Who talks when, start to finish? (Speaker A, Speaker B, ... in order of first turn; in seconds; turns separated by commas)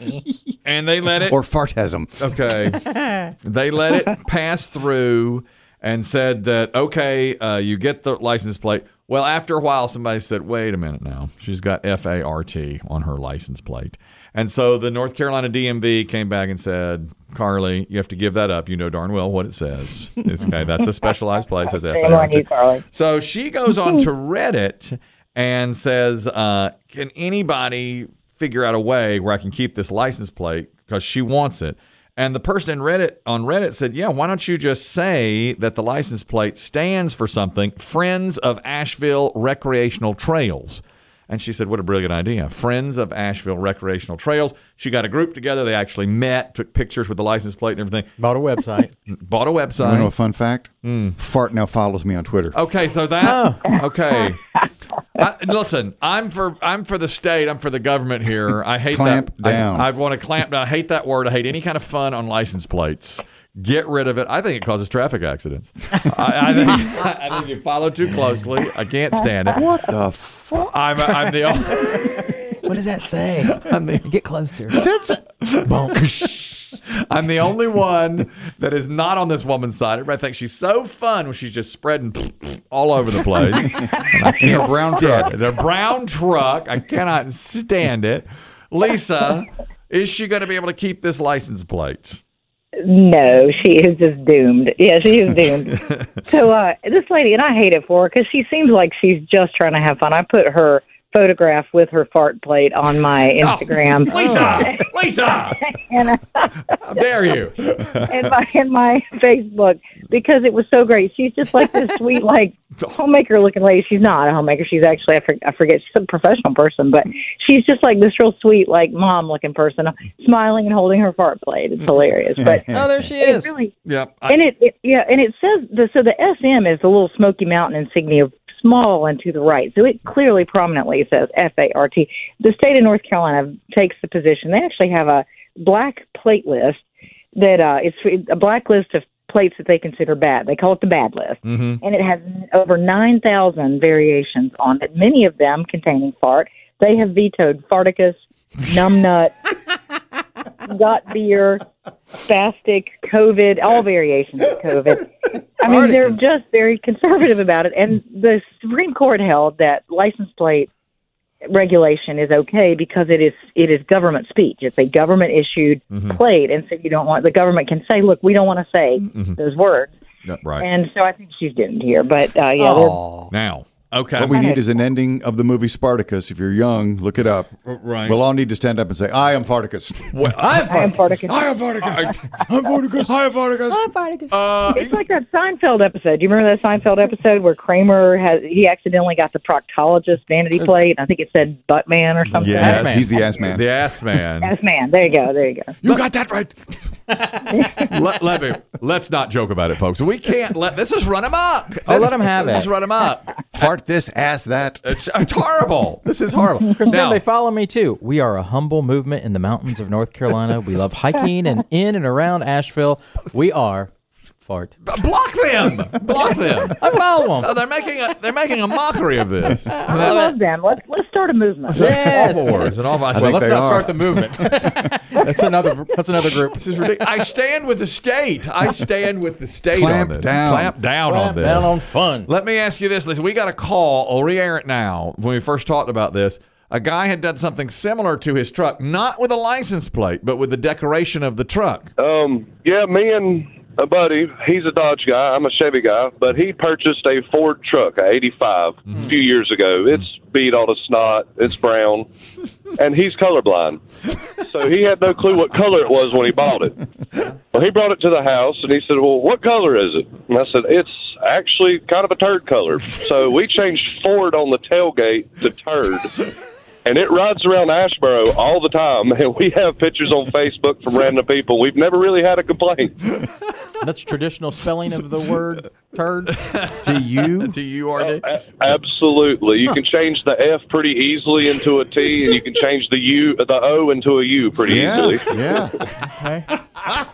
Speaker A: 0.6-1.4, Speaker B: 1.3-2.3, Speaker A: 2.2-48.1, Speaker C: 21.6-22.8, Speaker D: 48.2-48.9, Speaker A: 49.1-50.1, Speaker B: 49.8-52.6, Speaker A: 50.8-51.1, Speaker A: 52.5-54.5, Speaker D: 53.2-53.7, Speaker A: 55.1-69.7, Speaker B: 58.9-59.9, Speaker B: 69.6-71.3, Speaker A: 70.6-72.5, Speaker D: 72.6-74.8, Speaker A: 73.4-74.1, Speaker B: 74.7-75.2, Speaker A: 75.4-92.2, Speaker D: 75.6-76.3, Speaker B: 84.2-85.3, Speaker C: 84.4-84.7, Speaker C: 92.8-104.8, Speaker A: 103.4-105.7, Speaker D: 104.2-104.6, Speaker C: 105.6-106.6, Speaker A: 106.7-108.2, Speaker C: 108.0-122.7, Speaker B: 122.4-122.8, Speaker D: 122.7-123.5, Speaker C: 123.2-123.7, Speaker A: 123.8-124.3, Speaker C: 124.3-136.8, Speaker C: 137.3-149.3, Speaker A: 141.4-141.8, Speaker C: 150.6-160.7, Speaker D: 155.7-156.2, Speaker C: 161.4-169.9, Speaker A: 165.9-166.2, Speaker A: 169.0-169.4, Speaker A: 170.2-170.7, Speaker C: 170.6-173.0, Speaker D: 172.6-173.3, Speaker A: 173.3-174.4, Speaker B: 174.2-177.5, Speaker C: 174.3-174.6, Speaker A: 177.6-178.2, Speaker B: 178.0-180.2, Speaker A: 180.1-182.1, Speaker D: 180.3-181.2, Speaker C: 180.7-181.6, Speaker D: 182.5-184.4, Speaker A: 183.1-183.8, Speaker A: 184.3-185.0, Speaker C: 184.7-193.5, Speaker A: 192.3-194.5, Speaker B: 192.4-193.7, Speaker D: 192.6-193.1, Speaker C: 194.4-195.8, Speaker B: 195.8-196.5, Speaker C: 197.5-197.9, Speaker A: 197.8-203.5, Speaker D: 201.8-202.7, Speaker B: 203.5-204.8, Speaker A: 204.8-207.2, Speaker D: 206.7-213.9, Speaker D: 214.4-214.7, Speaker A: 214.8-220.3, Speaker D: 216.6-217.6, Speaker C: 219.8-222.2, Speaker D: 221.7-226.7, Speaker A: 221.8-223.8, Speaker B: 223.1-224.5, Speaker A: 226.6-241.9, Speaker B: 229.7-230.7, Speaker D: 231.1-232.3, Speaker E: 242.0-252.0, Speaker E: 252.8-253.8, Speaker E: 254.5-256.7, Speaker E: 257.5-266.1, Speaker E: 266.9-272.9, Speaker D: 273.8-276.4, Speaker A: 276.4-278.8, Speaker B: 276.8-277.5, Speaker E: 278.0-285.1, Speaker B: 284.6-285.7, Speaker D: 286.0-286.5